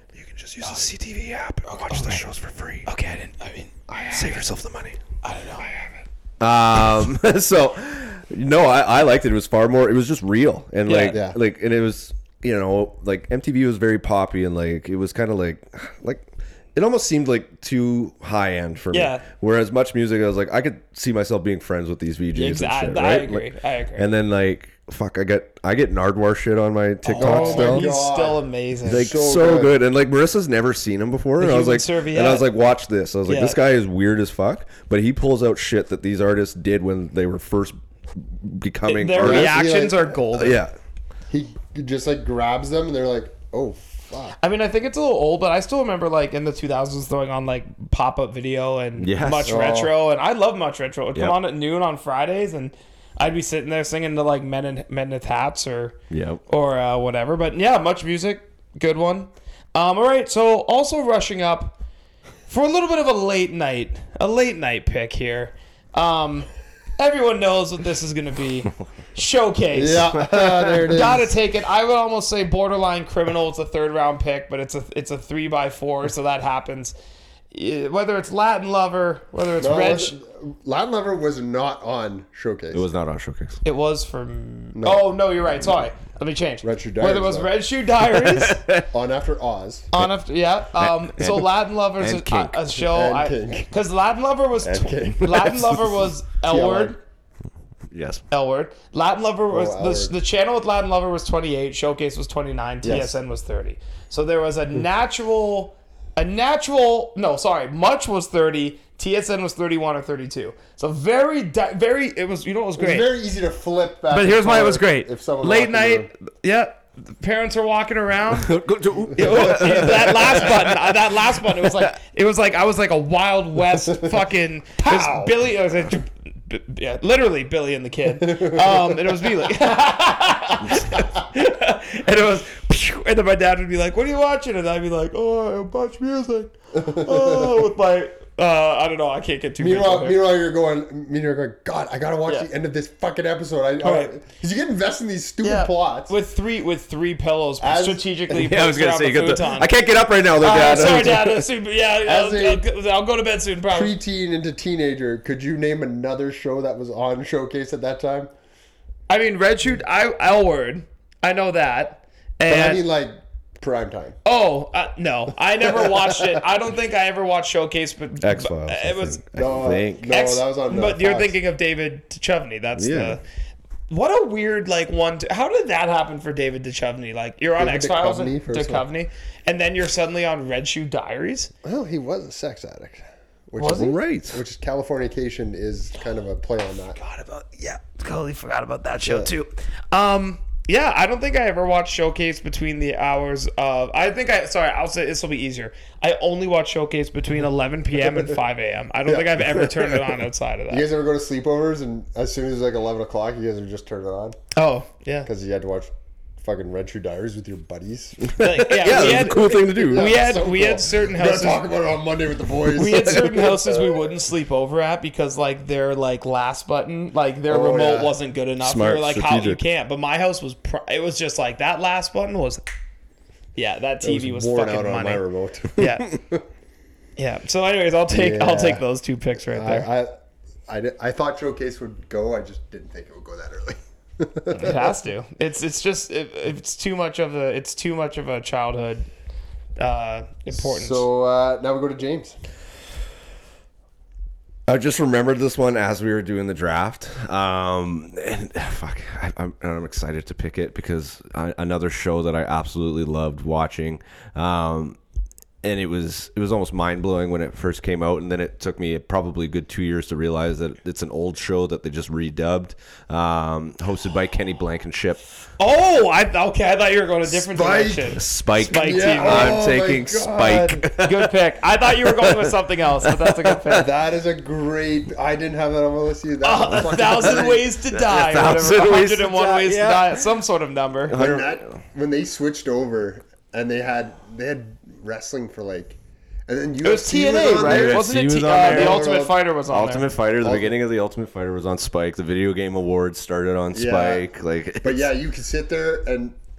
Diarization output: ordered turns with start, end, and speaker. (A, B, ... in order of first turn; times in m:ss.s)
0:00.2-0:02.9 A
0:00.6-0:00.9 B
0:01.6-0:02.2 B
0:02.8-0:03.8 B
0:03.9-0:04.3 C
0:04.1-0:05.0 A
0:05.2-0:05.7 B
0:06.4-0:27.9 A
0:10.9-0:11.2 B
0:11.1-0:11.4 C
0:18.9-0:19.2 B
0:22.3-0:24.1 B
0:27.0-0:29.1 B
0:27.1-0:29.7 C
0:28.8-0:39.6 A
0:31.4-0:32.5 B
0:33.3-0:33.6 B
0:38.9-0:40.6 B
0:39.2-0:40.2 C
0:40.3-0:40.7 A
0:41.3-0:44.4 C
0:44.4-1:01.8 B
0:49.0-0:49.5 A
0:49.4-0:49.9 C
0:56.1-0:56.4 A
1:02.5-1:16.9 B
1:09.7-1:11.3 C
1:10.3-1:10.8 A
1:17.5-1:20.2 B
1:19.6-1:22.8 C
1:22.7-1:23.6 A
1:23.6-1:28.6 B
1:24.7-1:25.0 C
1:26.6-1:27.5 C
1:28.2-1:28.8 A
1:28.9-1:29.9 C
1:29.9-1:37.0 B
1:30.7-1:32.6 A
1:32.8-1:33.7 C
1:34.6-1:35.4 C
1:35.2-1:35.8 A
1:36.4-1:37.0 C
1:37.9-1:38.2 A
1:38.3-1:53.1 B
1:39.5-1:40.1 C
1:42.8-1:43.1 C
1:52.8-1:56.1 C
1:54.1-1:58.5 B
1:58.3-2:01.8 A
1:59.1-2:20.2 B
2:04.8-2:05.3 C
2:08.2-2:09.1 C
2:16.7-2:17.6 C
2:19.6-2:26.1 C
2:23.8-2:24.1 B
2:25.4-2:29.7 B
2:27.6-2:28.2 C
2:28.3-2:31.5 A
2:30.4-2:33.9 B
2:32.0-2:32.6 C
2:33.7-2:38.3 C
2:39.1-2:42.8 B
2:42.5-2:44.2 C
2:44.2-2:49.2 B
2:48.2-2:50.1 A
2:49.4-2:51.3 C
2:50.1-2:53.2 B
2:52.8-2:53.2 A
2:53.9-3:01.5 B
2:57.6-2:58.8 C
3:01.6-3:07.0 C
3:03.6-3:03.9 B
3:03.7-3:04.4 A
3:07.0-3:20.8 B
3:09.0-3:09.3 C
3:19.0-3:19.8 C
3:20.7-3:24.4 C
3:24.5-3:25.3 B
3:25.2-3:28.3 C
3:28.2-3:30.2 A
3:28.4-3:31.6 B
3:28.9-3:33.9 C
3:32.7-3:42.6 B
3:37.5-3:38.1 C
3:38.6-3:39.6 A
3:43.5-3:45.2 B
3:44.0-3:46.4 C
3:45.8-3:46.1 B
3:47.2-3:49.9 B
3:48.1-3:48.8 C
3:49.5-3:50.1 C
3:50.7-3:55.0 C
3:54.5-3:59.1 B
3:59.8-4:01.1 B
4:00.5-4:02.4 C
4:04.7-4:15.0 A
4:15.6-4:25.2 A
4:25.6-4:29.6 B
4:27.2-4:30.9 C
4:28.2-4:33.8 A
4:30.9-4:33.9 B
4:33.7-4:37.7 C
4:36.4-4:41.2 B
4:37.9-4:40.2 A
4:41.1-4:41.7 A
4:41.1-4:49.3 C
4:46.8-4:50.1 B
4:47.5-4:49.0 A
4:49.7-4:55.1 A
4:50.4-4:50.8 C
4:53.7-4:54.2 C
4:54.8-4:56.3 C